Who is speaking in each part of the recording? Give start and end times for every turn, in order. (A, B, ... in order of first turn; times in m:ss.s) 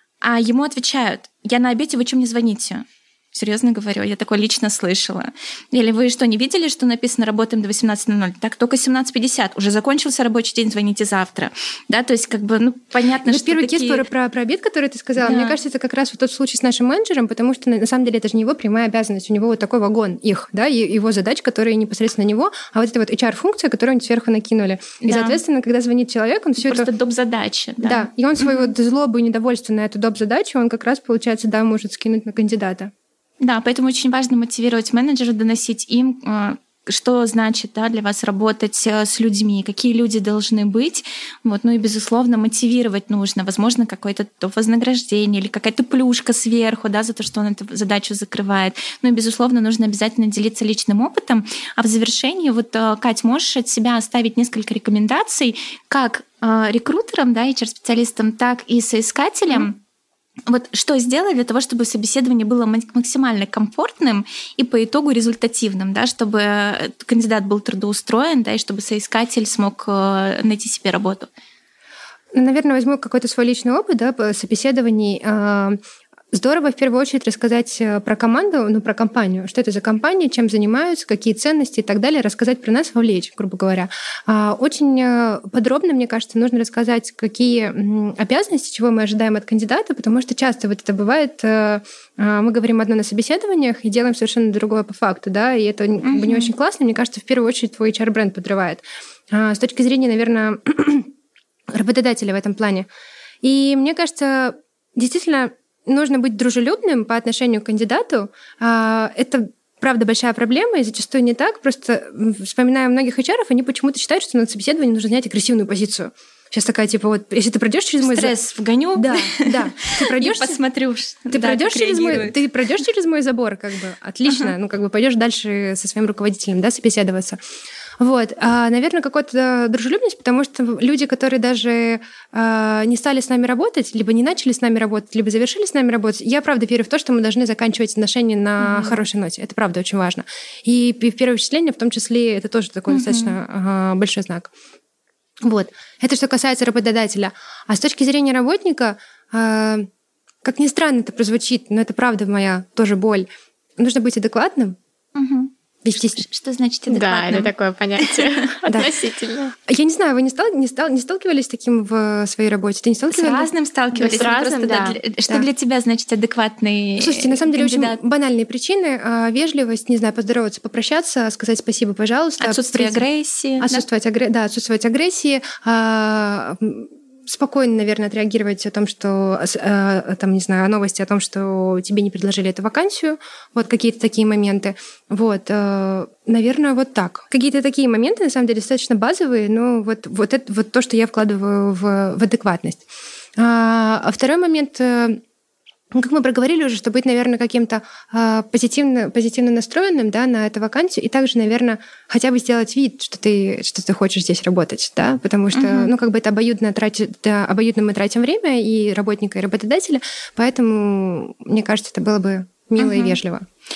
0:00.2-0:14.0 A
0:13.2-0:26.9 B
0:15.2-0:15.6 A
0:25.0-0:25.4 A
0:26.6-0:28.7 A
0:27.8-0:32.9 B
0:33.4-0:59.8 A
1:00.5-1:11.3 A
1:12.3-1:15.8 B
1:16.3-1:41.1 B
1:36.0-1:36.5 A
1:41.7-1:42.9 B
1:43.4-1:58.3 B
1:58.0-2:02.4 A
1:59.0-2:00.6 B
2:01.3-2:07.4 B
2:04.3-2:04.5 A
2:08.0-2:24.5 B
2:18.6-2:19.0 A
2:22.9-2:23.4 A
2:25.4-2:29.9 B
2:30.4-2:33.3 B
2:33.8-2:34.8 B
2:35.2-2:38.5 A
2:35.8-2:36.2 B
2:36.9-2:39.5 C
2:39.6-2:43.5 B
2:43.1-2:48.0 A
2:43.9-2:45.0 C
2:47.0-2:53.1 B
2:52.4-2:53.8 A
2:53.6-3:12.8 B
3:13.4-3:15.2 B
3:15.9-3:33.4 B
3:25.5-3:25.9 A
3:32.8-3:33.2 A